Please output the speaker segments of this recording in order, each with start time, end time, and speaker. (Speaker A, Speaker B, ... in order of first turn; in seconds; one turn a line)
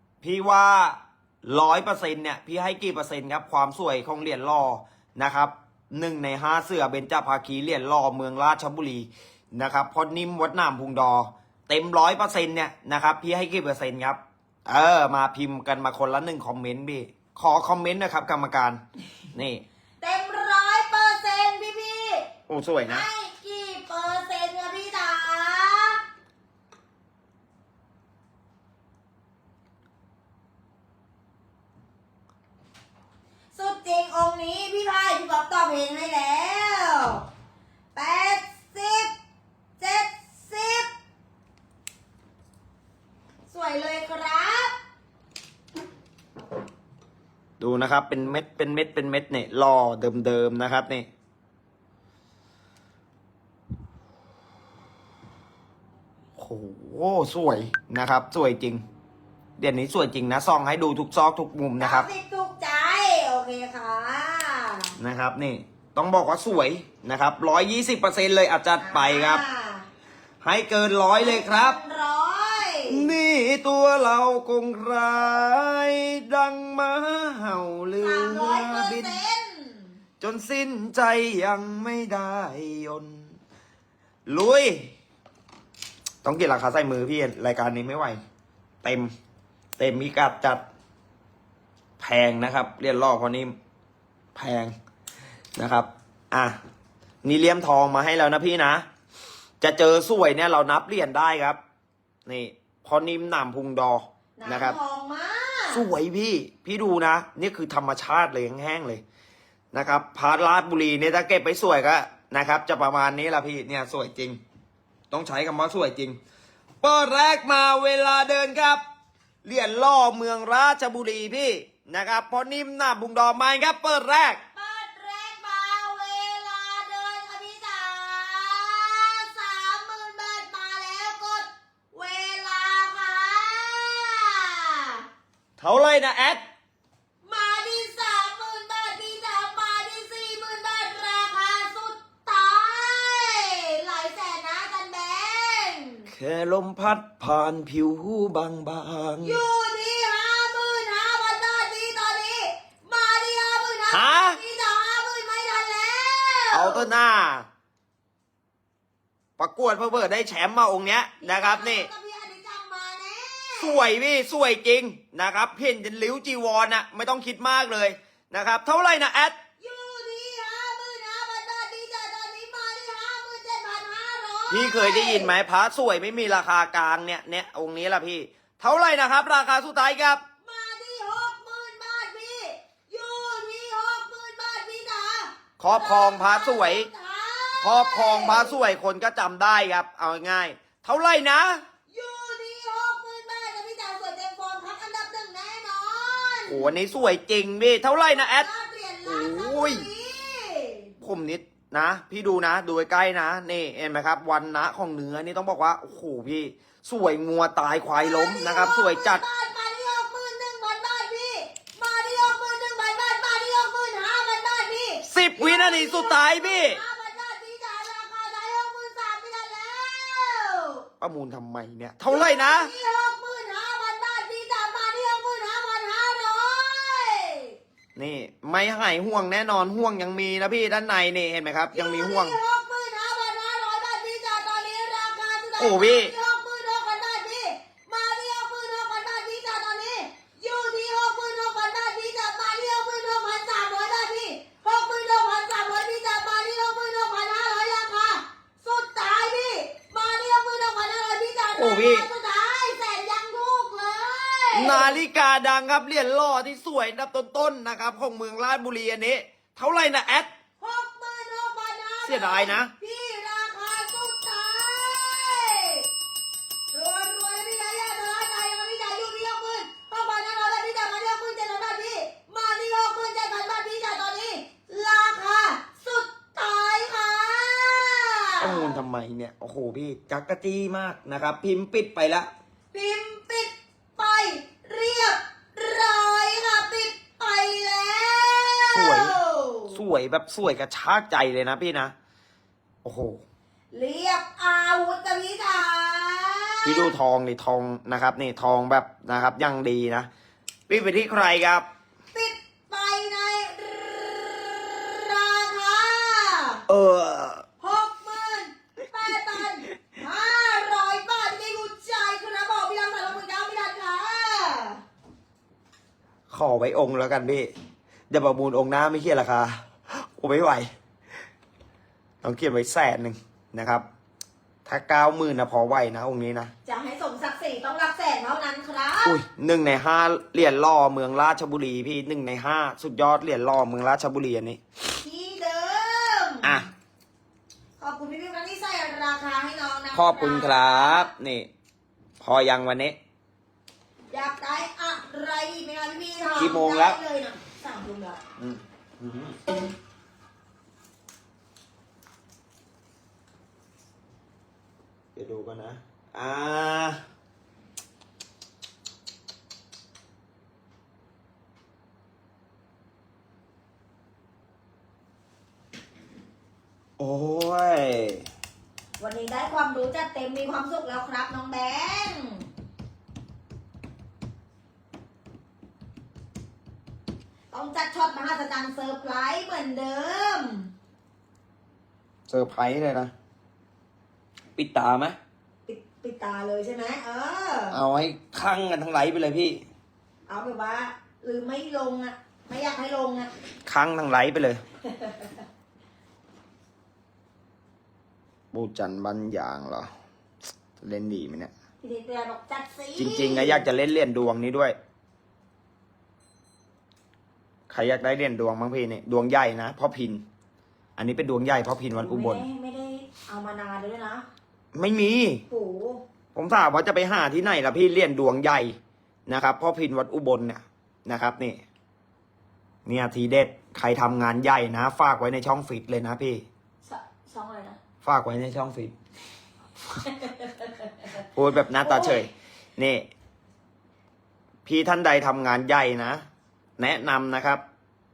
Speaker A: 0.2-18.8
Speaker A: 19.3-19.6
Speaker B: 20.0-22.3
Speaker A: 22.5-23.1
Speaker B: 22.8-26.0
Speaker B: 33.5-37.3
Speaker B: 38.0-39.1
Speaker B: 39.8-40.9
Speaker B: 43.5-44.8
Speaker A: 47.6-51.1
Speaker A: 56.4-58.8
Speaker A: 59.6-62.1
Speaker B: 61.8-65.0
Speaker A: 65.0-69.4
Speaker B: 68.8-69.9
Speaker A: 70.4-71.8
Speaker B: 71.2-73.1
Speaker A: 72.9-79.2
Speaker B: 78.0-80.0
Speaker A: 80.2-83.3
Speaker A: 84.3-84.9
Speaker A: 86.2-88.2
Speaker A: 88.8-89.1
Speaker A: 89.8-90.6
Speaker A: 92.0-93.5
Speaker A: 94.3-94.7
Speaker A: 95.6-96.6
Speaker A: 97.2-98.9
Speaker A: 99.6-101.6
Speaker A: 102.3-104.8
Speaker B: 104.4-105.9
Speaker A: 105.7-109.0
Speaker A: 109.7-114.4
Speaker A: 115.1-116.2
Speaker A: 116.8-118.8
Speaker A: 119.4-124.4
Speaker B: 124.5-135.1
Speaker A: 135.6-136.4
Speaker B: 137.2-146.1
Speaker A: 146.1-149.4
Speaker B: 149.2-156.9
Speaker A: 153.9-154.4
Speaker A: 156.5-157.5
Speaker A: 159.4-161.9
Speaker B: 161.2-163.8
Speaker A: 163.6-169.4
Speaker B: 169.6-175.3
Speaker A: 174.5-180.2
Speaker B: 180.4-188.6
Speaker A: 185.6-186.9
Speaker A: 187.6-191.6
Speaker B: 191.9-196.7
Speaker A: 196.5-198.5
Speaker B: 198.1-200.9
Speaker A: 199.1-199.9
Speaker A: 201.0-209.2
Speaker B: 207.9-220.9
Speaker A: 215.1-216.8
Speaker A: 221.0-222.7
Speaker B: 222.1-227.6
Speaker A: 228.0-232.4
Speaker B: 231.7-255.0
Speaker A: 235.6-236.1
Speaker A: 251.6-252.1
Speaker A: 254.5-260.3
Speaker B: 260.6-265.9
Speaker A: 262.1-262.7
Speaker B: 266.7-278.8
Speaker A: 278.4-282.3
Speaker B: 282.7-289.8
Speaker A: 288.7-289.2
Speaker A: 289.7-291.9
Speaker A: 292.8-293.2
Speaker B: 293.7-296.9
Speaker A: 296.6-300.1
Speaker A: 300.7-301.7
Speaker B: 302.1-306.6
Speaker A: 306.7-307.4
Speaker B: 307.6-314.8
Speaker A: 316.3-317.5
Speaker A: 318.1-320.7
Speaker A: 322.2-323.9
Speaker A: 324.6-326.5
Speaker B: 326.7-329.2
Speaker A: 329.1-334.6
Speaker B: 335.0-336.6
Speaker B: 337.8-341.1
Speaker A: 339.9-341.5
Speaker A: 342.2-343.0
Speaker B: 344.1-348.2
Speaker A: 346.4-347.0
Speaker A: 348.4-349.4
Speaker A: 355.1-357.0
Speaker A: 367.0-368.3
Speaker B: 369.0-372.5
Speaker B: 377.5-380.7
Speaker A: 382.3-383.1
Speaker A: 384.6-385.2
Speaker B: 385.7-387.8
Speaker A: 387.7-389.6
Speaker B: 390.3-393.3
Speaker A: 393.7-394.6
Speaker B: 394.8-395.4
Speaker A: 398.5-399.9
Speaker A: 400.8-401.5
Speaker B: 401.8-403.7
Speaker A: 403.0-404.8
Speaker A: 407.7-410.2
Speaker A: 411.0-412.4
Speaker B: 412.0-414.3
Speaker A: 414.8-415.4
Speaker B: 415.5-416.0
Speaker A: 416.3-418.8
Speaker A: 419.3-421.6
Speaker A: 422.9-426.5
Speaker B: 426.8-427.8
Speaker A: 428.0-428.9
Speaker B: 429.9-431.1
Speaker A: 431.2-433.1
Speaker B: 431.8-432.3
Speaker A: 434.7-436.2
Speaker A: 436.8-437.6